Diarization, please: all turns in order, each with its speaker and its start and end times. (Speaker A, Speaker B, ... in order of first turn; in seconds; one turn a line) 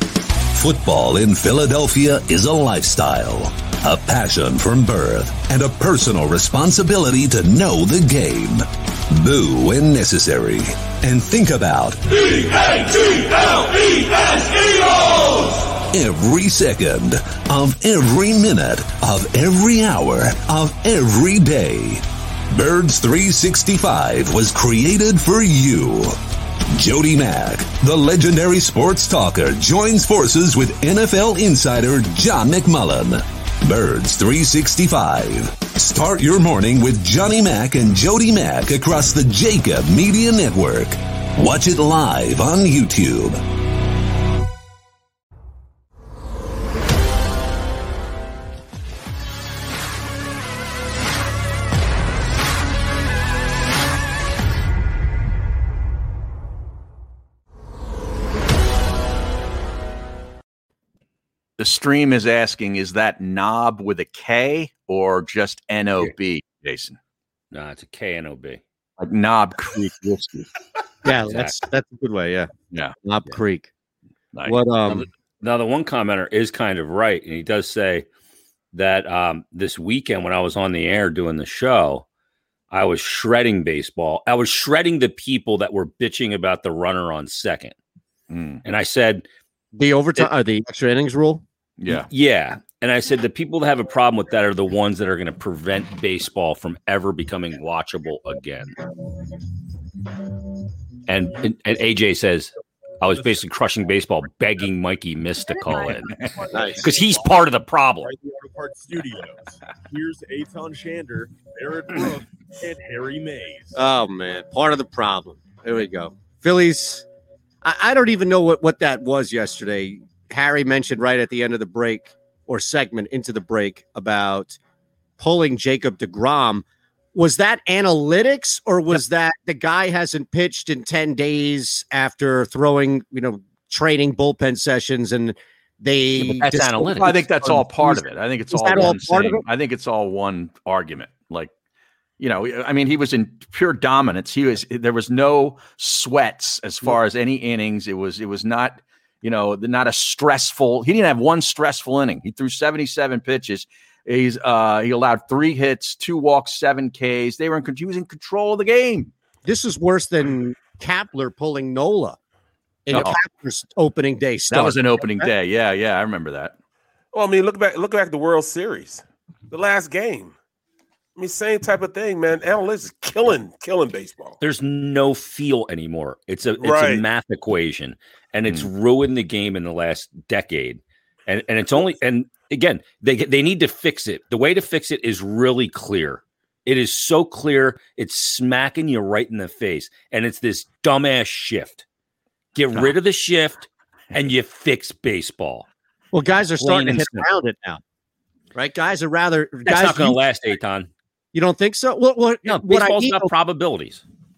Speaker A: 0.5-13.2
Speaker A: 13.9-14.7
Speaker A: 15.9-26.1
Speaker A: 26.7-43.4
Speaker B: 61.6-67.0
Speaker C: 67.5-68.6
Speaker B: 69.0-70.5
Speaker D: 71.0-72.5
Speaker C: 71.2-71.6
Speaker D: 73.0-73.7
Speaker B: 74.3-74.6
Speaker D: 74.5-75.1
Speaker C: 74.9-78.0
Speaker C: 78.7-82.0
Speaker C: 82.7-87.7
Speaker B: 88.3-88.6
Speaker C: 88.6-89.2
Speaker D: 89.7-91.4
Speaker B: 91.8-92.1
Speaker C: 91.9-98.8
Speaker C: 101.1-108.1
Speaker D: 106.5-106.9
Speaker E: 106.9-107.5
Speaker E: 108.0-113.7
Speaker D: 113.7-117.0
Speaker D: 117.6-124.6
Speaker D: 125.2-139.4
Speaker C: 136.2-137.2
Speaker B: 137.0-141.5
Speaker B: 142.2-159.1
Speaker D: 159.4-162.2
Speaker D: 162.8-165.3
Speaker B: 162.9-163.2
Speaker B: 164.5-166.5
Speaker F: 167.1-170.3
Speaker F: 171.2-174.4
Speaker C: 174.4-191.8
Speaker F: 176.6-177.0
Speaker C: 192.5-195.7
Speaker D: 196.1-197.8
Speaker C: 196.6-197.3
Speaker D: 198.5-200.2
Speaker C: 199.7-200.9
Speaker D: 201.3-203.3
Speaker C: 202.4-204.0